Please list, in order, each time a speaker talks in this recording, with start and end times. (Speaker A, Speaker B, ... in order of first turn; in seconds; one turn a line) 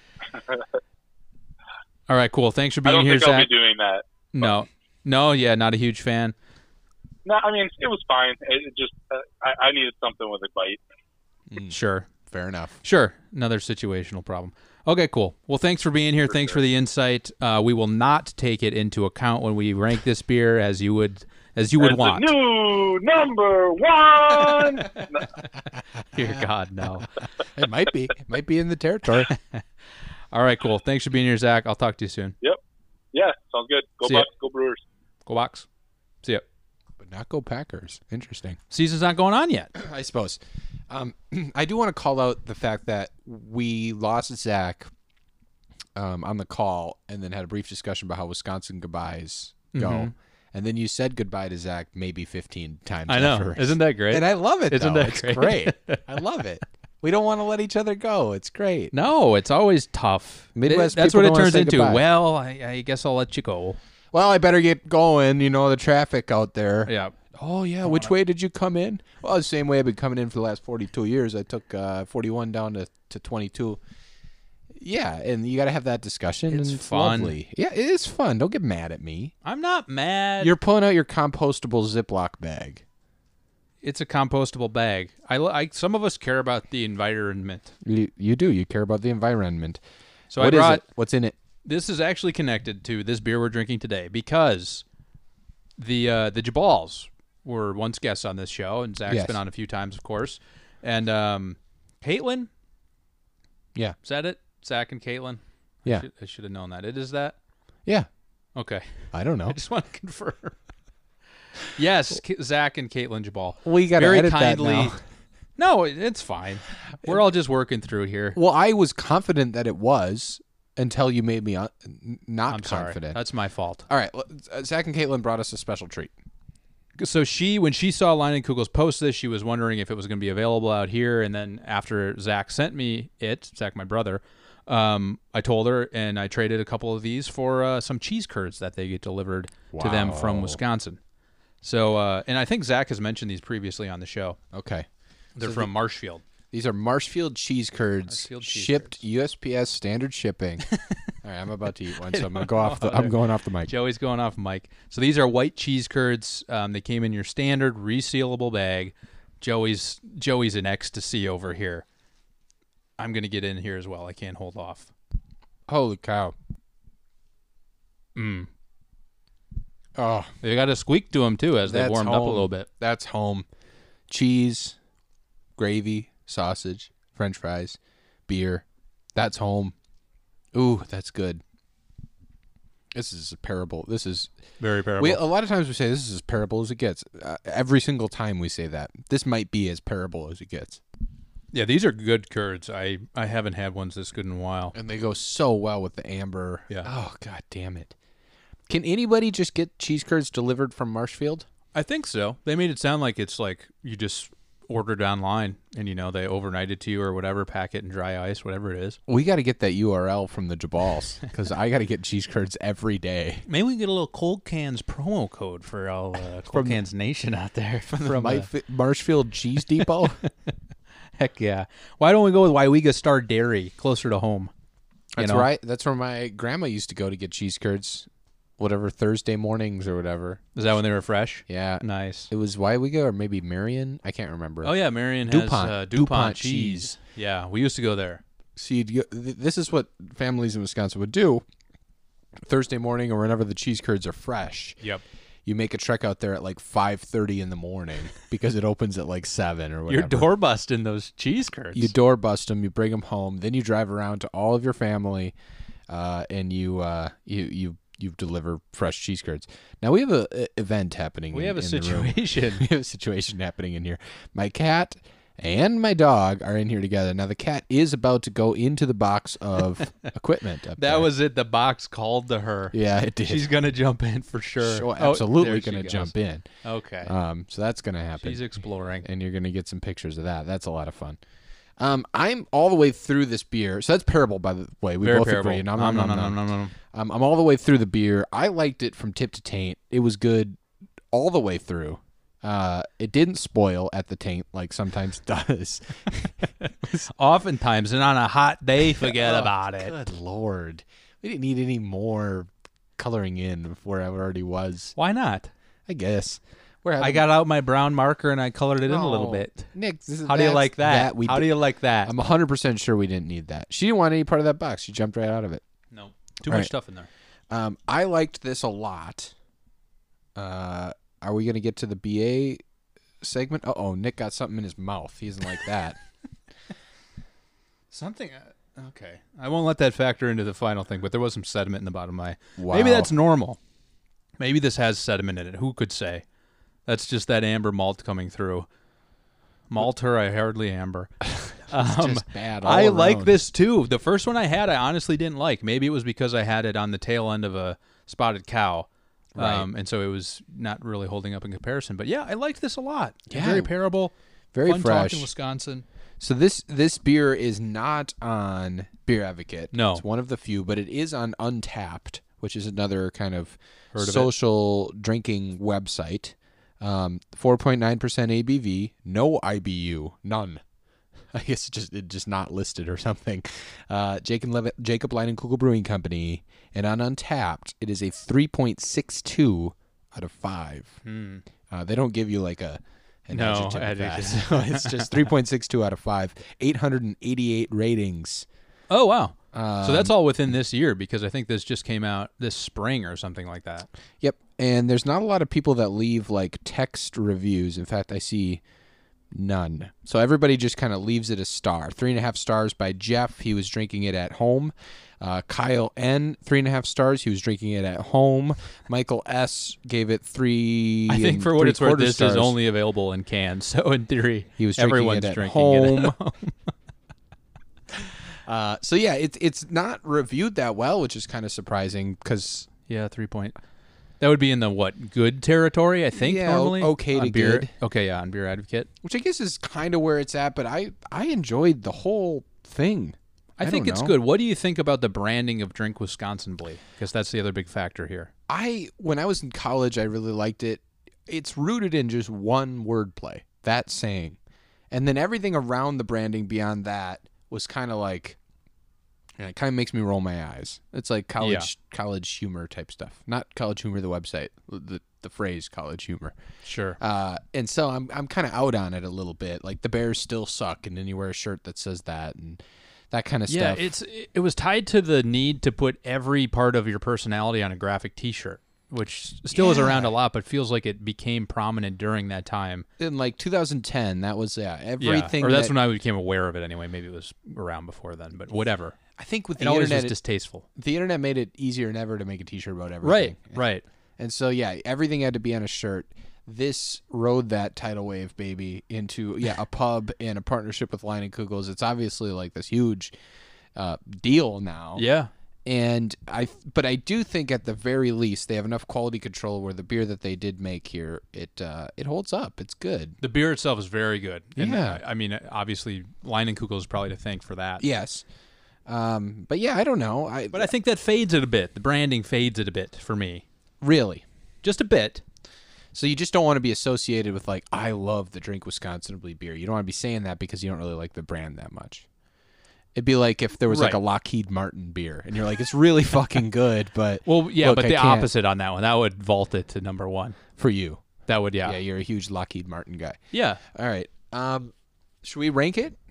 Speaker A: 0.3-0.7
Speaker B: 2.1-3.5
Speaker A: 2.9-4.5
Speaker B: 4.3-6.3
Speaker A: 7.2-10.8
Speaker C: 11.5-11.8
Speaker B: 11.7-12.1
Speaker C: 12.3-12.8
Speaker B: 12.8-22.3
Speaker A: 16.3-16.6
Speaker A: 21.8-25.3
Speaker B: 26.1-27.1
Speaker C: 27.6-29.3
Speaker B: 29.3-29.6
Speaker B: 30.3-32.4
Speaker A: 33.1-34.8
Speaker B: 35.3-35.7
Speaker C: 37.0-38.6
Speaker B: 38.7-39.7
Speaker C: 39.8-44.9
Speaker C: 46.0-58.9
Speaker B: 49.7-50.1
Speaker B: 53.1-56.1
Speaker B: 58.9-63.8
Speaker C: 60.5-62.0
Speaker C: 64.1-73.8
Speaker B: 66.9-67.2
Speaker B: 67.8-68.1
Speaker C: 74.7-79.3
Speaker B: 76.5-77.3
Speaker B: 79.4-80.5
Speaker C: 80.4-82.8
Speaker B: 83.8-87.7
Speaker C: 87.8-89.8
Speaker B: 90.3-90.8
Speaker C: 90.4-91.3
Speaker B: 91.7-94.8
Speaker B: 95.8-102.5
Speaker C: 99.1-99.4
Speaker B: 104.0-107.4
Speaker B: 108.6-110.6
Speaker C: 109.1-109.6
Speaker B: 111.7-114.9
Speaker C: 113.7-115.0
Speaker B: 115.6-118.4
Speaker C: 118.3-123.2
Speaker B: 122.5-123.9
Speaker C: 123.9-126.1
Speaker B: 127.0-141.0
Speaker C: 139.7-140.6
Speaker B: 141.6-144.4
Speaker C: 144.5-144.9
Speaker B: 145.4-146.2
Speaker C: 145.4-145.7
Speaker C: 146.5-150.7
Speaker B: 148.1-149.0
Speaker B: 150.7-151.0
Speaker C: 151.2-153.7
Speaker B: 152.0-161.8
Speaker B: 163.0-164.9
Speaker C: 165.7-166.3
Speaker B: 168.2-168.5
Speaker C: 170.0-170.3
Speaker B: 170.4-172.7
Speaker C: 171.7-173.5
Speaker C: 174.1-174.8
Speaker C: 175.6-178.6
Speaker C: 179.2-179.8
Speaker C: 180.5-181.4
Speaker C: 182.9-184.3
Speaker B: 184.6-185.2
Speaker C: 185.0-190.8
Speaker B: 191.5-194.7
Speaker C: 194.7-197.9
Speaker C: 198.7-201.5
Speaker B: 201.7-209.0
Speaker C: 209.1-213.5
Speaker B: 213.5-218.5
Speaker C: 216.5-216.8
Speaker C: 217.9-220.2
Speaker B: 221.2-224.5
Speaker C: 225.2-228.1
Speaker B: 225.2-225.5
Speaker C: 228.6-230.4
Speaker B: 230.6-232.3
Speaker C: 231.5-236.9
Speaker B: 234.6-238.2
Speaker C: 238.6-241.4
Speaker C: 242.4-244.8
Speaker C: 245.4-250.3
Speaker B: 249.9-251.9
Speaker C: 251.8-255.3
Speaker C: 255.9-271.1
Speaker B: 261.3-262.7
Speaker B: 270.8-276.1
Speaker C: 272.7-273.5
Speaker C: 274.6-276.5
Speaker B: 276.6-277.1
Speaker C: 277.0-278.4
Speaker B: 278.2-279.1
Speaker C: 279.0-281.2
Speaker C: 281.8-290.6
Speaker B: 285.0-286.7
Speaker C: 291.1-297.1
Speaker B: 297.1-299.9
Speaker C: 299.0-304.9
Speaker B: 305.0-305.5
Speaker C: 305.9-307.2
Speaker B: 307.0-309.7
Speaker C: 308.9-311.5
Speaker B: 310.2-312.1
Speaker C: 312.1-315.6
Speaker B: 315.9-317.1
Speaker C: 317.5-319.3
Speaker C: 320.4-322.6
Speaker C: 323.2-326.0
Speaker B: 327.9-333.6
Speaker C: 332.6-333.1
Speaker B: 334.4-336.2
Speaker B: 336.9-338.7
Speaker B: 339.7-341.1
Speaker B: 341.7-354.1
Speaker C: 341.7-343.5
Speaker C: 349.4-349.7
Speaker C: 353.3-353.7
Speaker C: 354.5-355.3
Speaker B: 354.7-355.9
Speaker C: 356.2-370.6
Speaker B: 359.7-360.0
Speaker B: 363.9-364.3
Speaker C: 371.3-381.0
Speaker B: 381.1-381.4
Speaker C: 381.7-388.5
Speaker B: 383.3-385.2
Speaker B: 388.9-393.9
Speaker C: 389.5-390.1
Speaker C: 394.2-398.6
Speaker C: 399.3-412.6
Speaker B: 411.1-416.5
Speaker C: 414.6-416.2
Speaker C: 418.5-422.7
Speaker B: 422.9-423.6
Speaker B: 424.2-428.9
Speaker C: 426.1-427.7
Speaker C: 429.0-434.2
Speaker B: 433.6-438.3
Speaker C: 438.5-444.4
Speaker C: 444.9-448.4
Speaker C: 449.4-456.4
Speaker B: 451.4-451.7
Speaker B: 456.6-457.0
Speaker C: 457.0-463.9
Speaker B: 463.5-472.9
Speaker C: 469.5-470.1
Speaker C: 473.0-475.7
Speaker B: 475.0-479.0
Speaker C: 479.1-480.1
Speaker B: 479.6-480.7
Speaker C: 480.8-483.6
Speaker B: 483.0-483.8
Speaker C: 484.2-493.1
Speaker C: 493.8-495.1
Speaker B: 495.0-495.3
Speaker C: 495.7-503.2
Speaker B: 503.2-507.8
Speaker C: 504.6-505.0
Speaker C: 507.8-508.2
Speaker C: 508.9-510.7
Speaker B: 510.5-513.4
Speaker C: 513.8-514.2
Speaker B: 514.6-515.2
Speaker C: 515.9-522.0
Speaker C: 523.0-528.3
Speaker B: 523.7-524.0
Speaker B: 527.3-530.4
Speaker C: 530.5-531.1
Speaker B: 531.3-531.8
Speaker C: 531.6-536.0
Speaker B: 533.3-533.6